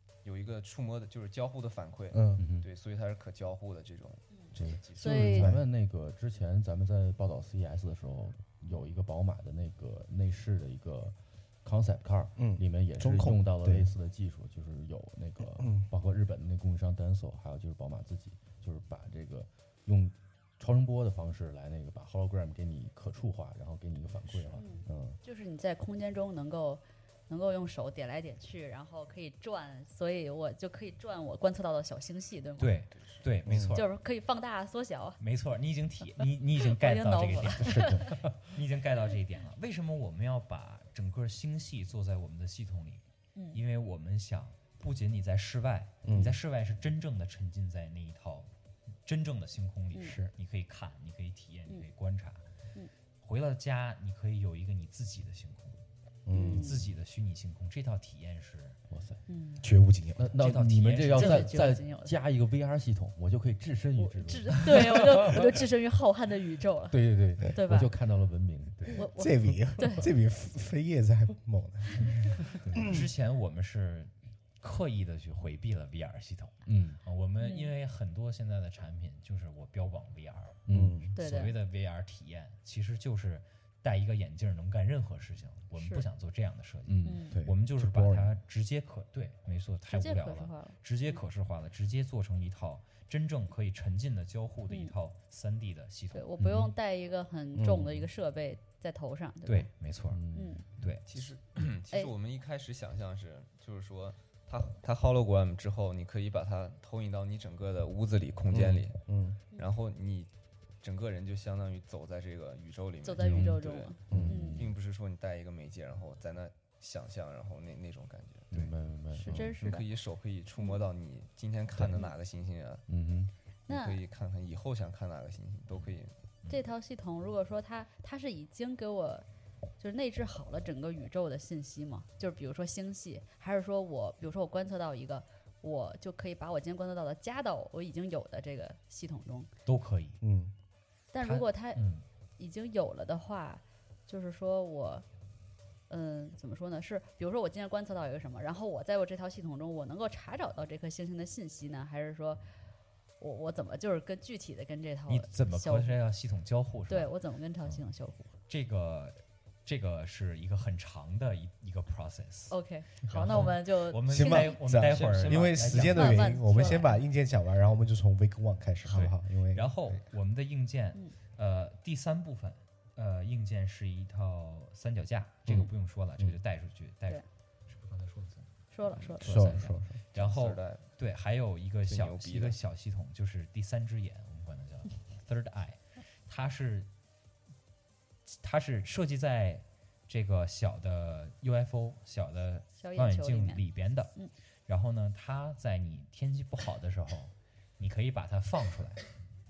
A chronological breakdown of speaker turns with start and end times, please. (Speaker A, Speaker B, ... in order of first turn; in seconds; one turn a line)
Speaker A: 0.2-5.2
Speaker B: 2.1-2.4
Speaker C: 2.4-2.7
Speaker C: 4.5-25.2
Speaker D: 5.0-5.5
Speaker B: 5.0-5.6
Speaker B: 12.4-13.9
Speaker B: 15.6-15.9
Speaker A: 24.3-24.7
Speaker D: 24.6-32.8
Speaker E: 32.6-33.9
Speaker A: 32.9-33.2
Speaker B: 33.5-33.8
Speaker D: 33.8-35.2
Speaker E: 35.2-48.5
Speaker D: 36.2-38.1
Speaker B: 37.8-38.0
Speaker B: 46.0-46.4
Speaker E: 49.0-52.4
Speaker E: 53.2-55.8
Speaker B: 56.3-56.8
Speaker D: 56.3-56.8
Speaker E: 56.5-58.8
Speaker C: 58.9-59.2
Speaker D: 59.3-59.7
Speaker B: 59.6-60.4
Speaker C: 60.2-65.7
Speaker E: 60.4-61.7
Speaker D: 61.1-62.1
Speaker D: 64.0-67.9
Speaker C: 66.9-69.1
Speaker D: 69.0-70.1
Speaker B: 69.1-73.1
Speaker C: 72.6-73.0
Speaker E: 72.8-80.6
Speaker C: 76.7-77.0
Speaker D: 77.4-77.7
Speaker C: 80.7-81.0
Speaker B: 80.7-81.1
Speaker D: 81.2-81.5
Speaker E: 81.2-96.3
Speaker D: 85.8-86.0
Speaker C: 86.9-87.3
Speaker D: 87.0-87.3
Speaker B: 87.3-88.3
Speaker D: 89.9-91.2
Speaker D: 96.1-99.7
Speaker C: 96.4-96.7
Speaker B: 97.5-98.1
Speaker E: 99.5-100.2
Speaker C: 100.1-100.6
Speaker D: 100.3-100.7
Speaker E: 100.8-101.0
Speaker A: 101.1-109.0
Speaker B: 108.5-109.4
Speaker A: 109.5-110.3
Speaker A: 110.8-118.5
Speaker D: 113.0-114.7
Speaker C: 113.2-114.8
Speaker B: 114.1-114.5
Speaker C: 118.5-119.7
Speaker D: 119.1-119.9
Speaker A: 119.6-122.8
Speaker C: 122.9-123.3
Speaker A: 123.7-126.1
Speaker D: 123.7-124.0
Speaker D: 126.5-129.3
Speaker D: 129.8-139.5
Speaker E: 139.7-140.2
Speaker B: 140.2-140.5
Speaker D: 141.1-141.8
Speaker E: 141.2-142.0
Speaker D: 142.4-145.1
Speaker D: 145.9-152.4
Speaker D: 153.2-156.0
Speaker E: 155.1-157.1
Speaker D: 156.9-158.3
Speaker E: 158.5-166.3
Speaker D: 162.5-164.6
Speaker B: 164.1-170.0
Speaker A: 164.8-165.9
Speaker D: 165.9-167.0
Speaker E: 168.9-186.9
Speaker B: 175.5-176.4
Speaker D: 178.7-179.3
Speaker B: 179.2-180.0
Speaker A: 180.1-180.9
Speaker A: 181.9-182.6
Speaker E: 188.3-199.1
Speaker D: 192.8-193.6